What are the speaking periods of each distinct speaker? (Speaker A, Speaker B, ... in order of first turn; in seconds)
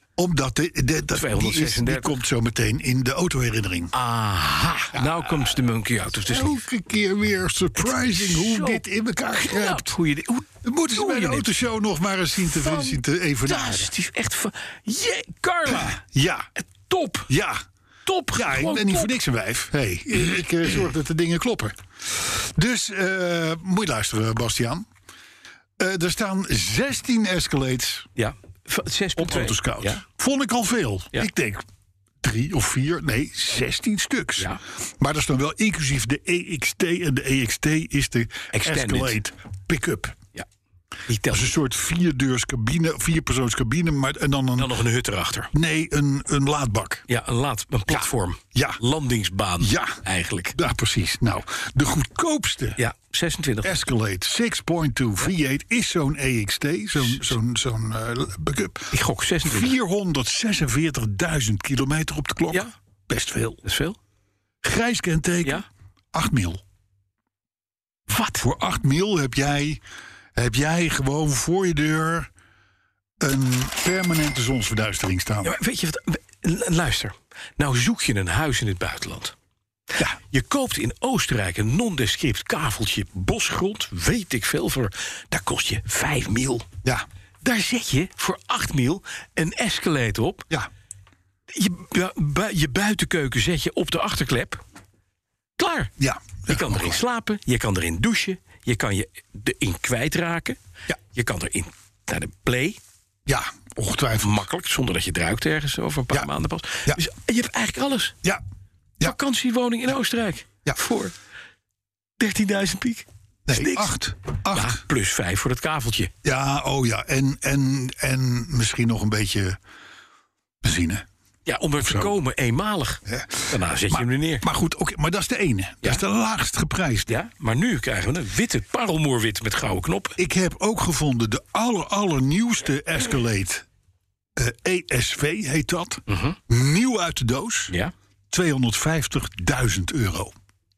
Speaker A: 0.2-3.9, 4.9-5.5, 6.2-9.9, 10.6-13.9, 15.7-16.4, 17.3-17.6, 18.3-24.9, 25.8-28.1, 29.2-31.6, 32.2-40.2, 41.3-44.7, 45.5-47.0, 47.9-48.8, 49.6-50.0, 50.5-52.8, 53.6-63.6, 64.6-66.6, 68.4-69.8, 70.3-72.3, 73.2-75.6, 96.0-97.0, 103.3-104.4, 113.5-114.8, 116.2-119.6, 120.6-121.0, 121.8-122.1, 123.0-127.1, 130.2-133.7, 134.3-137.7, 138.3-140.3
Speaker B: 1.1-2.2, 3.9-6.6, 7.8-11.5, 12.4-16.0, 16.6-17.3, 18.1-19.1, 28.2-30.0, 38.5-39.2, 41.1-41.5, 44.6-45.5, 47.1-50.5, 52.8-53.8, 57.0-57.3, 58.9-59.8, 63.6-64.0, 68.1-68.5, 75.4-79.3, 80.3-86.7, 87.4-90.5, 91.5-94.6, 95.6-95.9, 96.5-100.6, 101.1-102.8, 104.2-108.2, 109.0-111.1, 112.2-116.1, 121.5-124.5, 127.1-130.2, 136.1-136.4